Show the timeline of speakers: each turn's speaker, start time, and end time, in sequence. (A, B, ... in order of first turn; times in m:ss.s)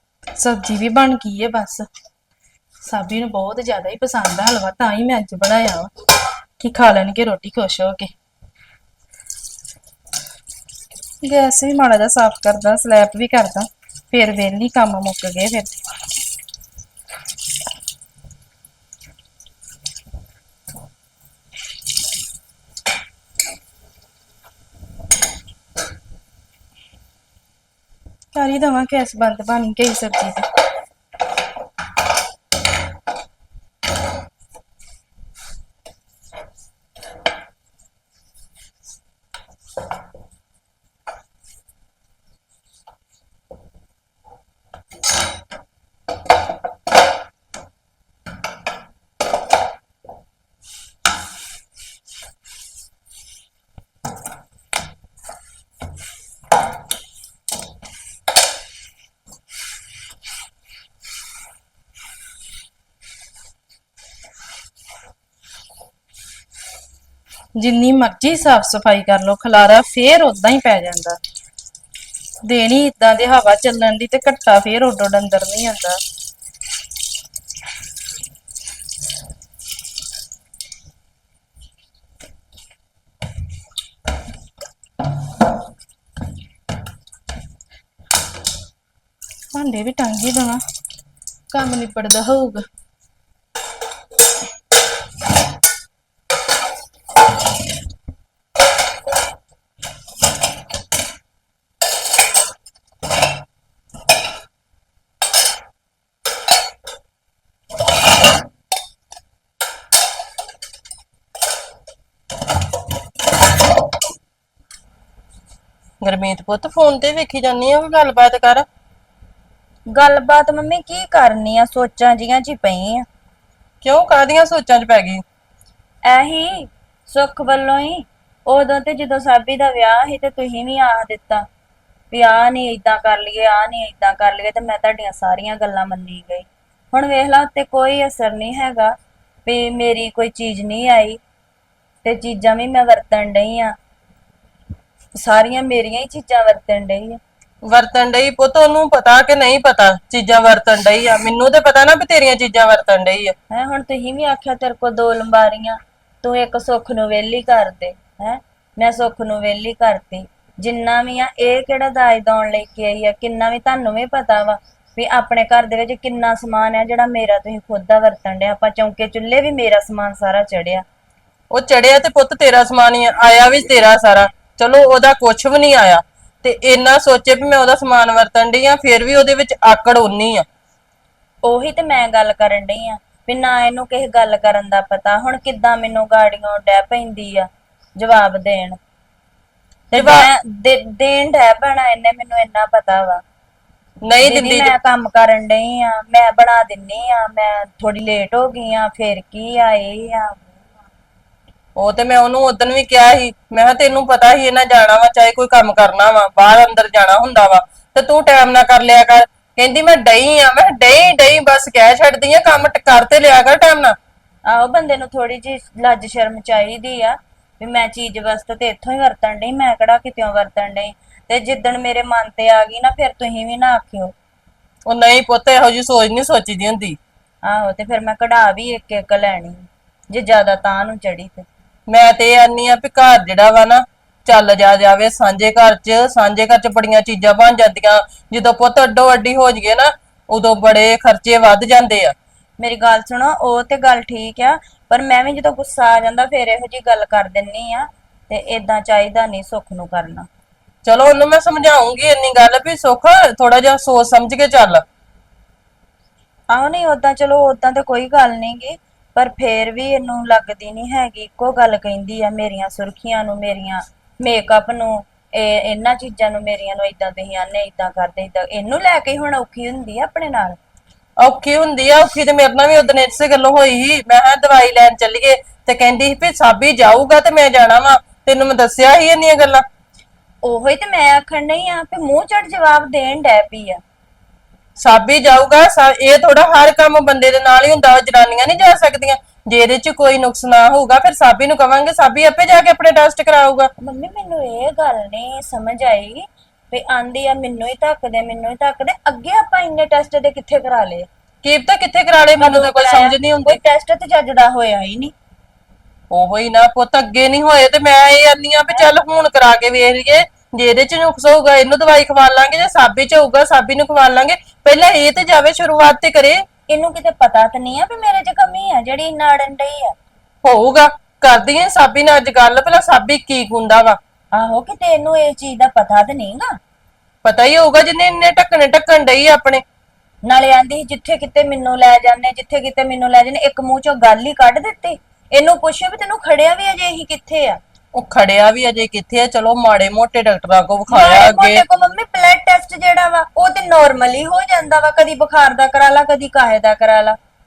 0:00.4-0:01.9 A
0:02.8-0:05.9 A
0:06.6-0:08.1 A
0:11.2-0:15.7 A
0:28.3-0:30.4 A
1:07.6-1:11.2 A
1:12.4-1:16.0 A
1:29.5-1:30.6 A
1:31.5-1:32.6 A
1:56.0-1:58.6 B
1:59.9-2:03.0 C
2:03.8-2:05.2 B
2:06.0-2:11.5 C
2:12.1-2:21.2 C
2:22.0-2:23.8 C
2:25.1-2:27.2 C
2:27.7-2:33.3 B
2:33.5-2:50.8 C
2:51.5-3:00.4 B
3:01.4-3:08.8 C
3:09.9-3:13.2 C
3:09.9-3:10.3 B
3:14.0-3:14.7 B
3:14.2-3:20.6 C
3:21.8-3:34.0 B
3:34.4-3:44.1 C
3:44.9-3:47.0 B
3:47.4-3:51.5 C
3:51.9-4:02.1 B
4:02.6-4:10.3 C
4:10.8-4:14.8 B
4:16.5-4:30.6 C
4:31.2-4:39.6 B
4:40.4-4:43.8 C
4:44.8-4:53.7 B
4:53.8-5:01.1 C
5:01.4-5:03.6 B
5:02.4-5:05.1 C
5:06.1-5:16.4 B
5:16.7-5:19.9 C
5:20.4-5:24.0 B
5:24.3-5:26.6 C
5:27.2-5:29.6 B
5:30.2-5:37.6 C
5:37.9-5:41.6 B
5:40.9-5:47.2 C